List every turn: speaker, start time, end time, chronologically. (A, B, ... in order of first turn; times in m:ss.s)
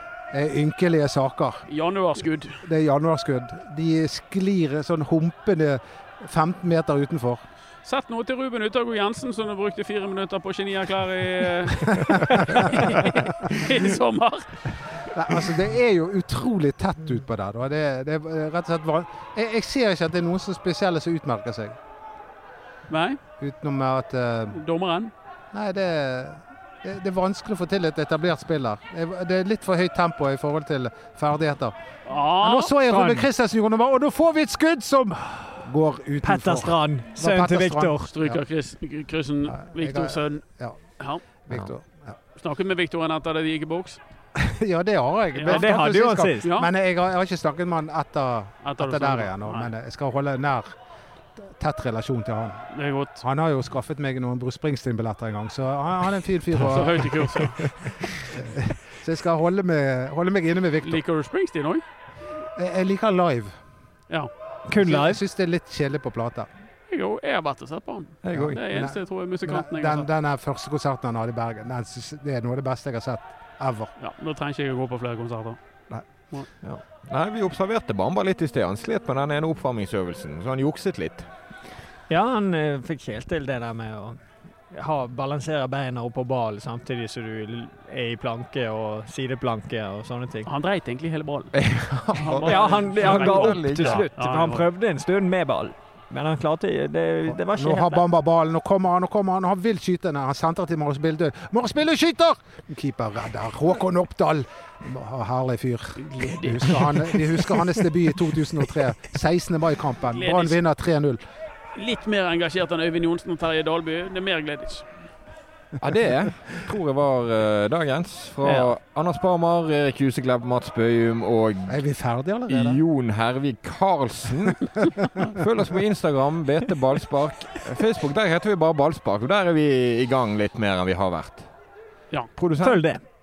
0:00.3-0:01.6 A
0:01.7-0:02.6 B
0:02.6-0:07.4 A
0:07.8-0:15.5 B
0:12.7-0:13.1 A
0:15.1-0:21.8 A
0:22.9-0:23.2 B
0:23.4-0:24.6 A
0:24.5-0:25.1 B
0:25.5-0:31.7 A
0:32.0-0:32.8 B
0:32.4-0:38.4 A
0:32.8-0:33.3 C
0:36.2-0:38.1 C
0:38.1-0:40.4 B
0:39.5-0:40.8 A
0:41.4-0:42.2 A
0:42.4-0:44.0 B
0:44.3-0:50.7 A
0:45.3-0:45.7 B
0:45.5-0:46.5 C
0:46.4-0:46.7 B
0:48.6-0:49.7 B
0:51.4-0:52.6 A
0:52.7-0:53.2 B
0:53.2-1:01.0 A
0:56.5-0:57.7 B
1:00.8-1:01.8 B
1:02.6-1:03.6 A
1:04.7-1:05.2 C
1:04.8-1:06.5 A
1:06.9-1:10.1 B
1:08.2-1:08.6 D
1:08.3-1:13.9 A
1:14.0-1:15.6 B
1:16.6-1:21.3 D
1:22.1-1:24.2 C
1:24.7-1:30.5 C
1:30.4-1:31.6 B
1:31.5-1:34.0 D
1:32.1-1:34.7 B
1:32.4-1:38.0 C
1:37.3-1:51.2 A
1:46.0-1:47.7 B
1:50.1-1:50.6 B
1:51.7-1:54.9 B
1:55.8-2:01.8 D
2:01.7-2:02.8 A
2:02.5-2:11.5 D
2:12.4-2:12.8 D
2:12.6-2:13.0 C